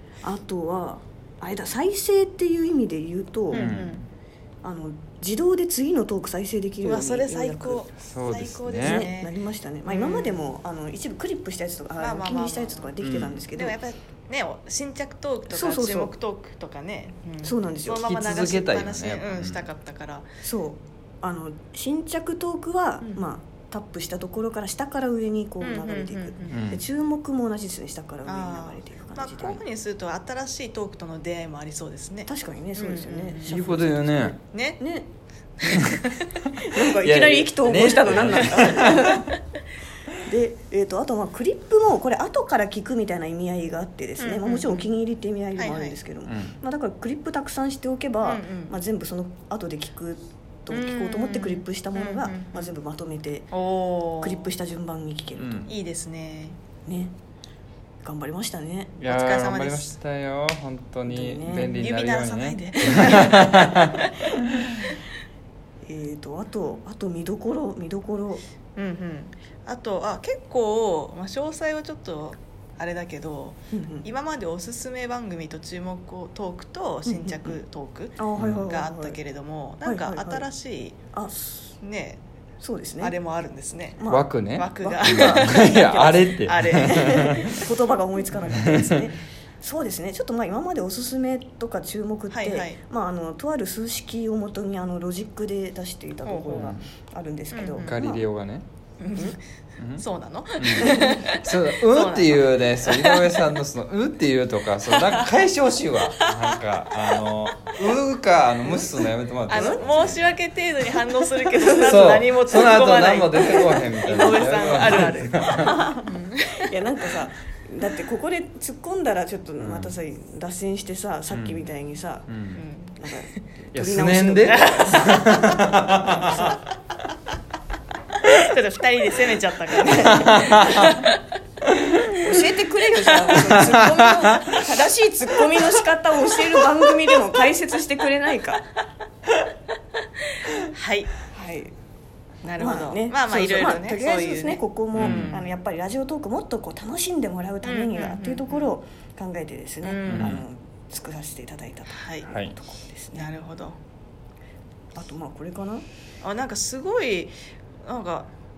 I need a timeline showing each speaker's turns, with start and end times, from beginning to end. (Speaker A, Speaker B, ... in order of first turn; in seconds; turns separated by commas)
Speaker A: 0.2-3.9, Speaker B: 3.5-4.0, Speaker C: 3.5-4.1, Speaker A: 4.6-7.9, Speaker B: 6.8-9.3, Speaker C: 8.0-9.1, Speaker A: 8.8-13.8, Speaker B: 9.9-10.5, Speaker B: 12.0-12.9, Speaker C: 13.0-13.4, Speaker B: 13.6-20.2, Speaker A: 15.5-16.1, Speaker A: 17.4-18.1, Speaker C: 18.0-19.7, Speaker A: 20.4-29.6, Speaker B: 23.0-23.3, Speaker B: 25.6-26.6, Speaker C: 26.5-26.8, Speaker B: 28.2-33.5, Speaker A: 32.3-35.1, Speaker C: 33.5-34.4, Speaker B: 34.5-34.8, Speaker C: 35.6-36.0, Speaker B: 35.6-36.1, Speaker A: 36.6-39.3, Speaker C: 36.6-39.2, Speaker A: 40.2-53.5, Speaker B: 44.2-44.9, Speaker B: 45.6-46.0, Speaker C: 46.3-46.6, Speaker B: 48.2-48.8, Speaker B: 50.7-52.7, Speaker B: 53.5-54.5, Speaker A: 54.2-55.7, Speaker C: 55.4-55.7, Speaker B: 55.7-56.6, Speaker A: 56.9-57.1, Speaker A: 58.0-59.0, Speaker C: 59.0-63.9, Speaker B: 59.0-60.0, Speaker A: 61.1-61.8, Speaker B: 61.6-64.9, Speaker A: 65.8-68.4, Speaker B: 68.8-81.0, Speaker A: 73.7-74.1, Speaker A: 77.1-77.6, Speaker A: 78.2-79.2, Speaker C: 78.4-78.7, Speaker A: 79.8-80.5, Speaker A: 81.1-81.7, Speaker B: 81.8-82.2, Speaker A: 82.6-83.2, Speaker B: 83.0-87.5, Speaker A: 84.0-98.2, Speaker C: 84.1-87.4, Speaker C: 88.5-89.0, Speaker B: 92.3-92.8, Speaker B: 96.2-96.8, Speaker C: 96.5-96.8, Speaker B: 97.5-98.0, Speaker C: 97.8-98.7, Speaker B: 99.0-99.4, Speaker C: 99.8-100.0, Speaker B: 100.0-103.4, Speaker C: 100.6-110.4, Speaker A: 100.8-101.2, Speaker B: 104.9-105.5, Speaker B: 106.1-107.4, Speaker B: 108.8-116.7, Speaker A: 109.5-109.8, Speaker A: 111.5-112.0, Speaker C: 111.8-115.8, Speaker A: 115.6-116.1, Speaker A: 116.6-122.3, Speaker C: 119.6-119.9, Speaker C: 121.3-121.7, Speaker C: 122.3-122.6, Speaker B: 122.5-123.0, Speaker A: 123.0-125.7, Speaker C: 123.7-126.6, Speaker B: 124.5-124.9, Speaker B: 128.2-131.2, Speaker C: 129.9-130.8, Speaker A: 130.0-130.9, Speaker A: 132.2-138.6, Speaker B: 133.0-133.4, Speaker C: 133.5-134.5, Speaker B: 140.5-141.1, Speaker A: 141.3-141.7, Speaker B: 142.4-145.5, Speaker A: 142.6-153.3, Speaker C: 145.0-145.4, Speaker B: 147.6-148.8, Speaker B: 149.8-150.4, Speaker C: 150.1-150.4, Speaker B: 151.9-152.3, Speaker C: 152.3-152.5, Speaker B: 153.1-153.8, Speaker A: 154.9-155.8, Speaker B: 156.2-158.3